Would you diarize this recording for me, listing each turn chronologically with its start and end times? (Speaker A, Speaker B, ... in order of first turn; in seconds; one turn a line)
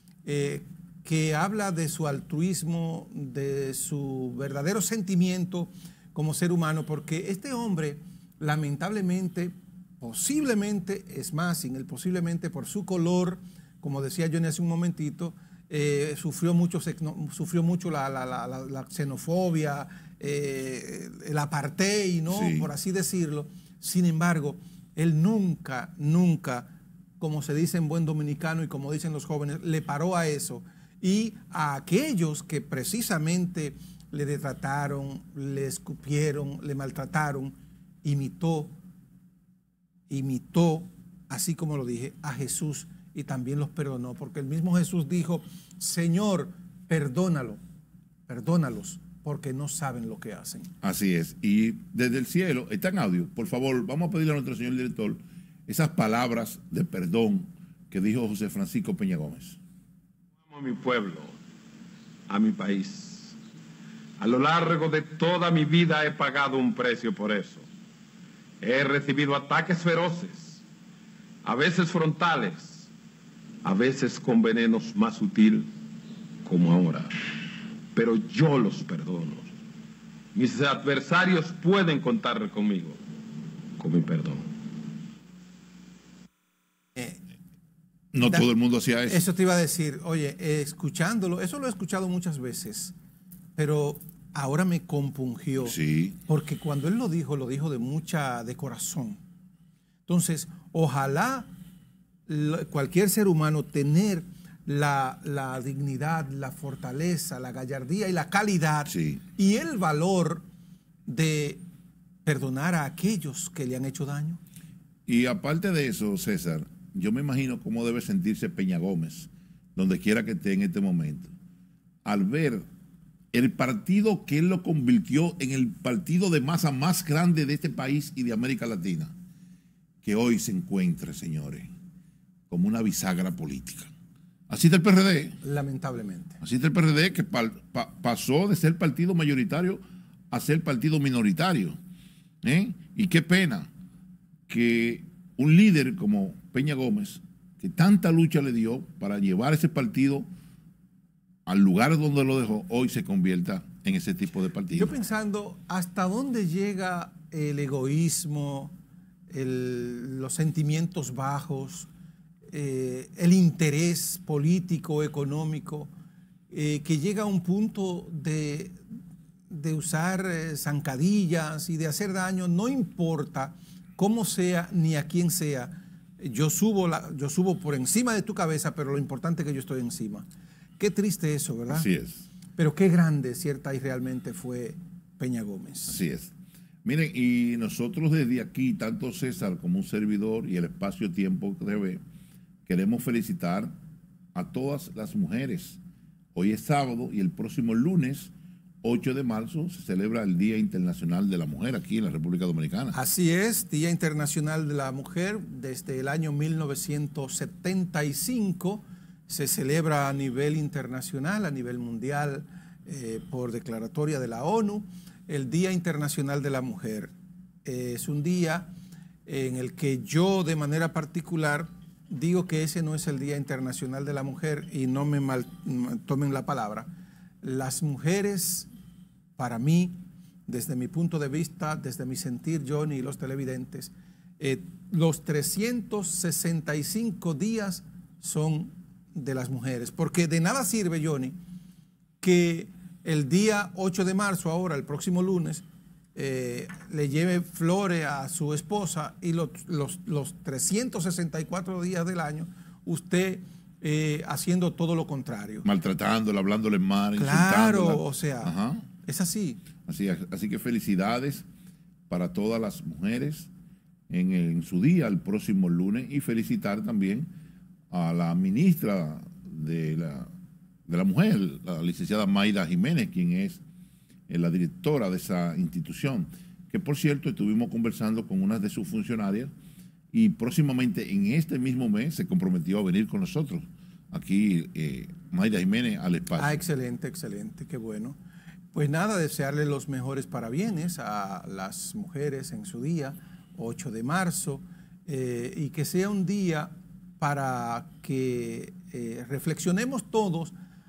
Speaker A: 0.2-38.7
Speaker B: 22.3-22.7
Speaker A: 40.1-47.6
Speaker A: 48.3-50.7
Speaker B: 50.8-59.6
Speaker C: 60.5-61.4
Speaker C: 62.3-63.4
Speaker C: 64.2-67.7
Speaker C: 68.6-70.6
Speaker C: 71.4-72.9
Speaker C: 73.6-75.7
Speaker C: 76.5-77.3
Speaker C: 77.9-79.5
Speaker C: 80.3-83.0
Speaker C: 83.8-84.5
Speaker B: 88.1-89.2
Speaker A: 88.2-88.5
Speaker A: 89.1-93.0
Speaker A: 93.6-99.2
Speaker B: 95.6-96.2
Speaker A: 100.1-101.5
Speaker A: 102.3-110.4
Speaker B: 108.9-109.2
Speaker A: 111.1-111.6
Speaker A: 112.2-114.4
Speaker B: 115.1-121.3
Speaker B: 122.0-122.7
Speaker B: 123.3-129.1
Speaker B: 130.0-131.7
Speaker B: 132.5-133.9
Speaker B: 134.5-135.4
Speaker A: 135.4-136.4
Speaker B: 136.4-141.8
Speaker B: 142.4-143.7
Speaker B: 144.5-150.3
Speaker B: 151.5-154.9
Speaker A: 154.7-158.7
Speaker A: 159.3-161.9
Speaker A: 162.5-165.9
Speaker A: 166.5-168.8
Speaker A: 169.5-180.3
Speaker A: 180.8-181.9
Speaker B: 181.7-182.3
Speaker A: 182.6-186.0
Speaker B: 185.9-186.3
Speaker B: 186.8-192.0
Speaker B: 192.7-193.7
Speaker B: 194.3-195.8
Speaker B: 196.3-198.3
Speaker B: 198.8-203.0
Speaker A: 202.9-217.1
Speaker A: 217.7-218.7
Speaker A: 219.3-226.9
Speaker A: 227.4-228.7
Speaker A: 229.4-241.3
Speaker A: 242.2-245.6
Speaker A: 246.2-255.7
Speaker B: 255.7-258.9
Speaker A: 257.2-258.5
Speaker A: 259.0-259.6
Speaker B: 259.9-261.5
Speaker B: 262.1-263.5
Speaker B: 264.1-267.3
Speaker B: 267.9-270.3
Speaker B: 270.9-273.6
Speaker B: 274.3-279.5
Speaker B: 280.1-286.6
Speaker A: 286.4-288.2
Speaker A: 288.7-300.5